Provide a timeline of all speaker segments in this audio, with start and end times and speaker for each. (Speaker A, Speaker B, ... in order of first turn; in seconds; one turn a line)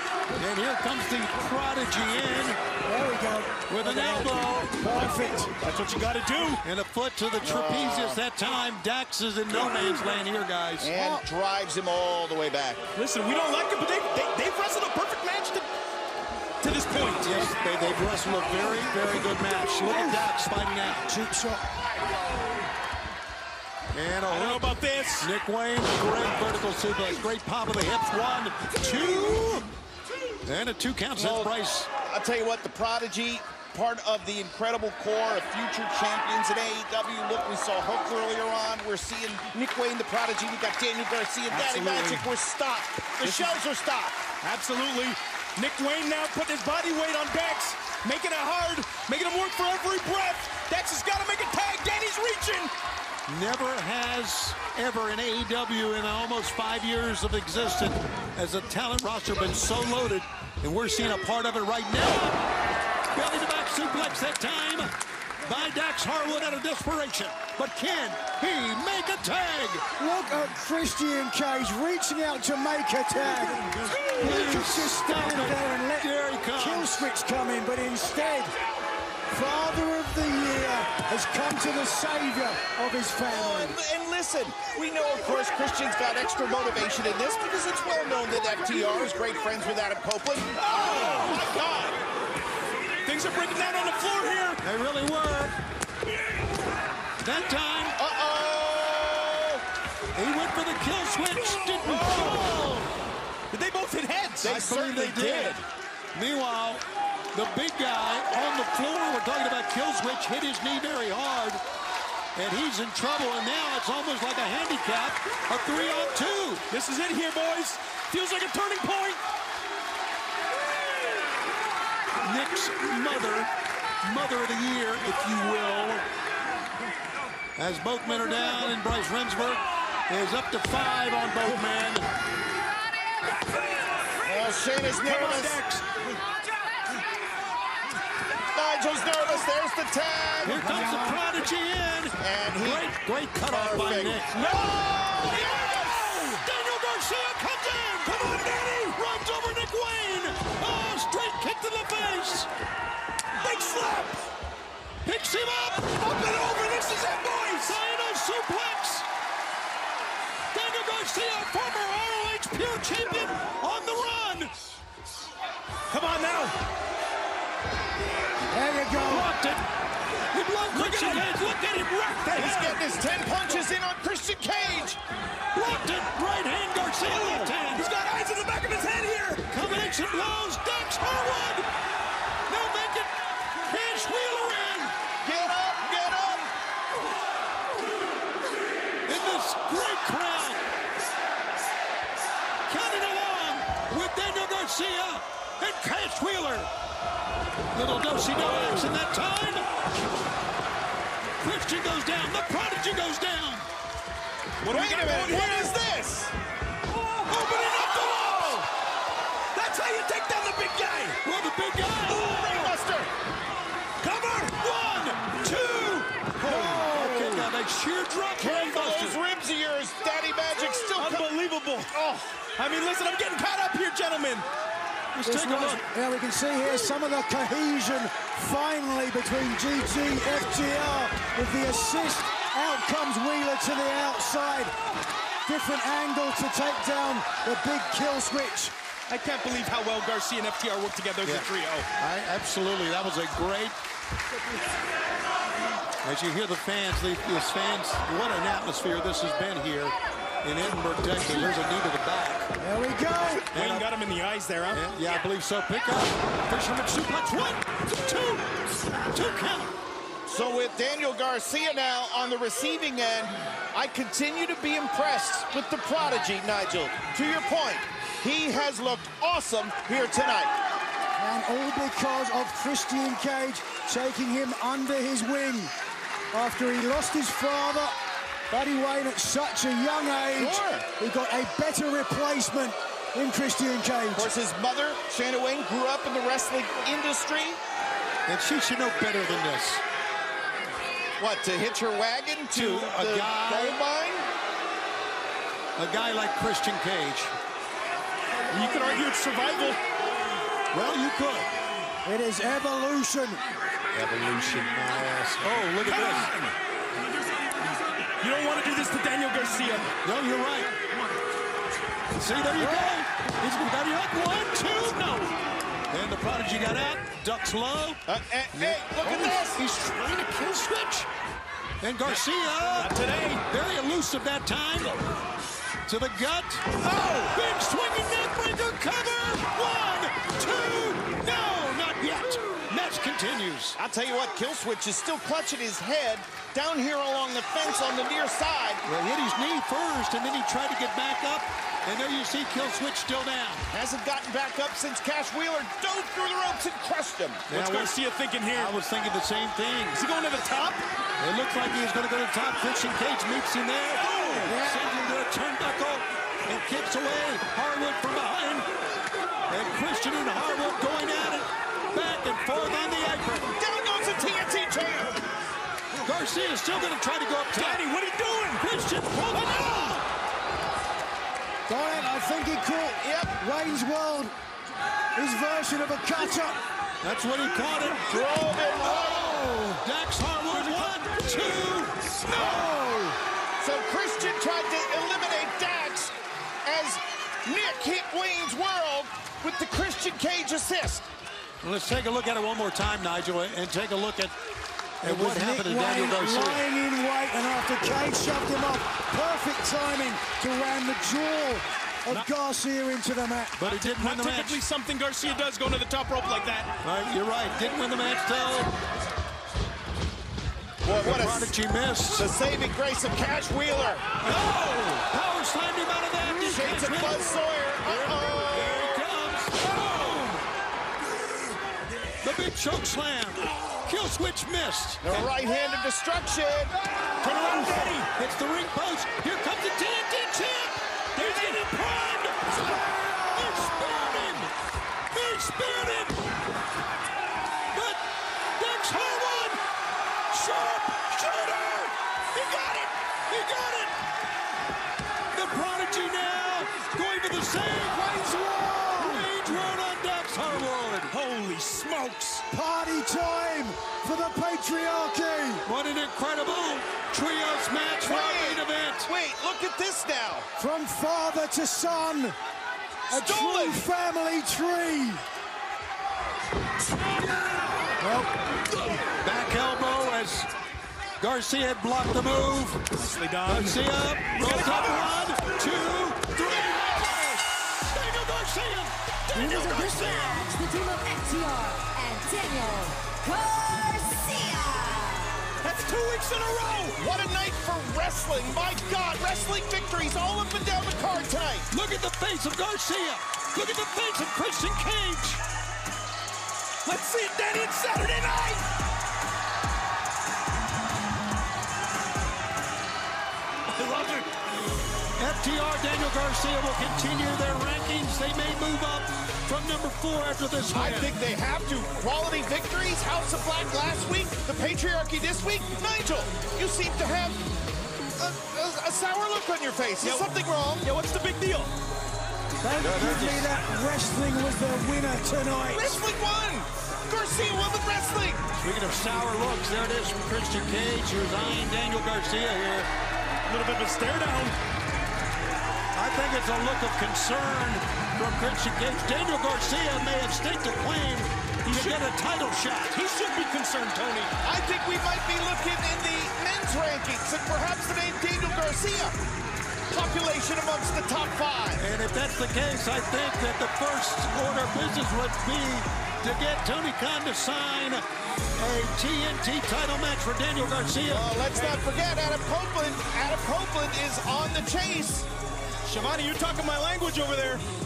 Speaker A: 0.3-2.6
Speaker B: 2.8-5.5
Speaker A: 3.7-4.8
Speaker C: 5.2-6.6
Speaker A: 6.6-10.9
Speaker D: 7.4-8.2
Speaker D: 10.8-12.8
Speaker B: 10.9-11.2
Speaker C: 12.9-15.7
Speaker C: 16.6-17.3
Speaker A: 17.2-21.1
Speaker B: 19.8-20.2
Speaker B: 21.1-21.6
Speaker A: 23.9-29.7
Speaker C: 24.3-25.3
Speaker A: 30.4-31.9
Speaker D: 31.1-44.2
Speaker C: 41.5-42.3
Speaker C: 43.2-43.6
Speaker C: 44.4-52.7
Speaker A: 53.3-62.4
Speaker A: 63.1-69.8
Speaker B: 70.0-78.5
Speaker A: 73.8-77.1
Speaker B: 79.3-83.8
Speaker D: 83.2-92.0
Speaker C: 90.6-91.5
Speaker C: 93.0-94.6
Speaker A: 94.6-95.5
Speaker A: 97.2-98.0
Speaker D: 98.0-99.6
Speaker A: 100.2-102.2
Speaker C: 101.8-102.8
Speaker D: 101.9-102.8
Speaker C: 103.5-104.7
Speaker D: 104.4-105.6
Speaker A: 104.4-105.6
Speaker A: 106.1-106.8
Speaker A: 107.3-111.6
Speaker A: 112.3-116.6
Speaker C: 116.7-119.2
Speaker A: 122.2-123.5
Speaker A: 124.0-126.0
Speaker A: 127.5-132.1
Speaker D: 134.2-135.6
Speaker C: 134.9-135.8
Speaker D: 138.5-140.6
Speaker A: 140.4-144.3
Speaker B: 140.5-141.2
Speaker D: 142.2-142.8
Speaker D: 143.4-145.7
Speaker C: 144.3-146.4
Speaker A: 145.4-152.5
Speaker C: 153.4-154.2
Speaker A: 155.0-155.9
Speaker C: 155.8-157.8
Speaker A: 157.4-159.1
Speaker A: 160.5-164.5
Speaker C: 165.9-166.6
Speaker B: 168.5-169.3
Speaker A: 168.9-169.6
Speaker A: 170.3-171.8
Speaker C: 170.7-172.8
Speaker D: 172.3-175.0
Speaker A: 175.5-177.8
Speaker C: 177.0-179.4
Speaker A: 179.5-181.7
Speaker A: 182.5-184.9
Speaker D: 185.2-186.5
Speaker A: 189.1-190.6
Speaker A: 192.7-196.7
Speaker A: 197.7-199.7
Speaker A: 201.4-203.7
Speaker C: 204.6-205.8
Speaker D: 204.7-206.3
Speaker C: 206.9-208.6
Speaker A: 207.3-208.6
Speaker C: 209.5-211.2
Speaker A: 211.2-212.5
Speaker D: 212.1-213.1
Speaker C: 212.3-212.7
Speaker C: 214.0-214.6
Speaker A: 214.5-219.2
Speaker D: 216.6-217.5
Speaker D: 218.3-221.3
Speaker C: 220.9-224.5
Speaker D: 221.9-222.3
Speaker A: 225.1-225.8
Speaker B: 225.2-234.7
Speaker B: 235.4-238.7
Speaker C: 239.1-241.9
Speaker A: 241.2-243.8
Speaker A: 246.0-252.5
Speaker B: 252.6-253.4
Speaker C: 253.5-254.8
Speaker A: 253.5-253.9
Speaker A: 254.7-259.7
Speaker D: 260.3-270.5
Speaker B: 271.2-275.7
Speaker B: 276.3-277.9
Speaker B: 278.5-284.3
Speaker D: 280.3-280.9
Speaker D: 284.1-287.6
Speaker A: 288.3-289.8
Speaker D: 291.2-294.3
Speaker A: 292.5-293.8
Speaker A: 295.8-297.3
Speaker C: 298.5-299.8
Speaker A: 300.7-301.5
Speaker B: 302.0-303.4
Speaker A: 303.9-306.3
Speaker C: 305.8-306.5
Speaker C: 308.2-309.9
Speaker A: 310.0-310.7
Speaker A: 312.2-315.3
Speaker A: 315.9-318.0
Speaker D: 318.1-319.6
Speaker A: 318.5-321.1
Speaker A: 321.8-322.9
Speaker C: 322.0-323.4
Speaker A: 323.5-325.0
Speaker A: 325.9-326.6
Speaker C: 326.8-327.4
Speaker A: 327.3-333.8
Speaker D: 333.8-338.8
Speaker A: 338.8-343.6
Speaker D: 343.7-347.4
Speaker C: 347.5-348.8
Speaker A: 347.5-347.9
Speaker A: 348.5-350.0
Speaker C: 349.9-350.8
Speaker A: 351.2-358.7
Speaker C: 354.0-354.6
Speaker B: 354.5-354.8
Speaker A: 359.5-363.5
Speaker D: 363.5-365.2
Speaker A: 366.0-367.8
Speaker C: 367.5-368.6
Speaker A: 368.6-370.0
Speaker C: 369.4-370.0
Speaker B: 371.7-374.3
Speaker D: 373.0-373.3
Speaker B: 375.1-376.6
Speaker A: 377.0-381.9
Speaker D: 377.9-379.5
Speaker D: 382.3-382.7
Speaker B: 382.3-383.2
Speaker D: 383.6-386.1
Speaker D: 386.6-391.1
Speaker A: 391.6-394.4
Speaker A: 395.0-396.6
Speaker B: 395.0-403.6
Speaker A: 403.6-404.6
Speaker C: 403.6-406.7
Speaker A: 406.8-408.7
Speaker D: 410.8-411.5
Speaker A: 410.9-412.3
Speaker D: 412.1-414.1
Speaker A: 414.2-419.7
Speaker D: 416.4-419.0
Speaker A: 422.2-425.3
Speaker D: 425.0-426.7
Speaker C: 427.2-428.1
Speaker A: 428.1-434.5
Speaker C: 431.1-431.7
Speaker A: 435.1-436.2
Speaker A: 437.7-438.0
Speaker A: 438.6-439.6
Speaker A: 440.3-443.9
Speaker A: 445.3-448.1
Speaker B: 447.9-449.3
Speaker A: 449.0-451.1
Speaker C: 451.1-452.4
Speaker B: 452.5-455.6
Speaker A: 455.6-459.1
Speaker D: 458.0-460.5
Speaker B: 460.6-462.4
Speaker D: 463.1-463.8
Speaker B: 463.1-465.2
Speaker A: 468.0-468.3
Speaker A: 469.1-470.5
Speaker A: 471.2-472.8
Speaker C: 472.9-475.2
Speaker A: 473.4-480.5
Speaker E: 479.3-485.5
Speaker C: 485.6-487.0
Speaker D: 487.0-491.7
Speaker A: 491.7-495.4
Speaker C: 496.8-498.6
Speaker C: 503.7-504.3
Speaker A: 505.2-511.1
Speaker D: 510.7-517.4
Speaker D: 518.2-520.9
Speaker C: 520.0-521.7
Speaker B: 522.6-526.0
Speaker A: 522.8-523.5
Speaker D: 525.7-528.4
Speaker A: 528.6-532.9
Speaker C: 533.4-534.6
Speaker A: 535.9-543.0
Speaker C: 541.6-542.0
Speaker C: 542.9-544.3
Speaker D: 544.4-549.1
Speaker D: 549.9-551.9
Speaker A: 551.8-558.0
Speaker A: 558.6-561.3
Speaker D: 561.1-565.3
Speaker C: 561.5-561.8
Speaker C: 565.8-567.6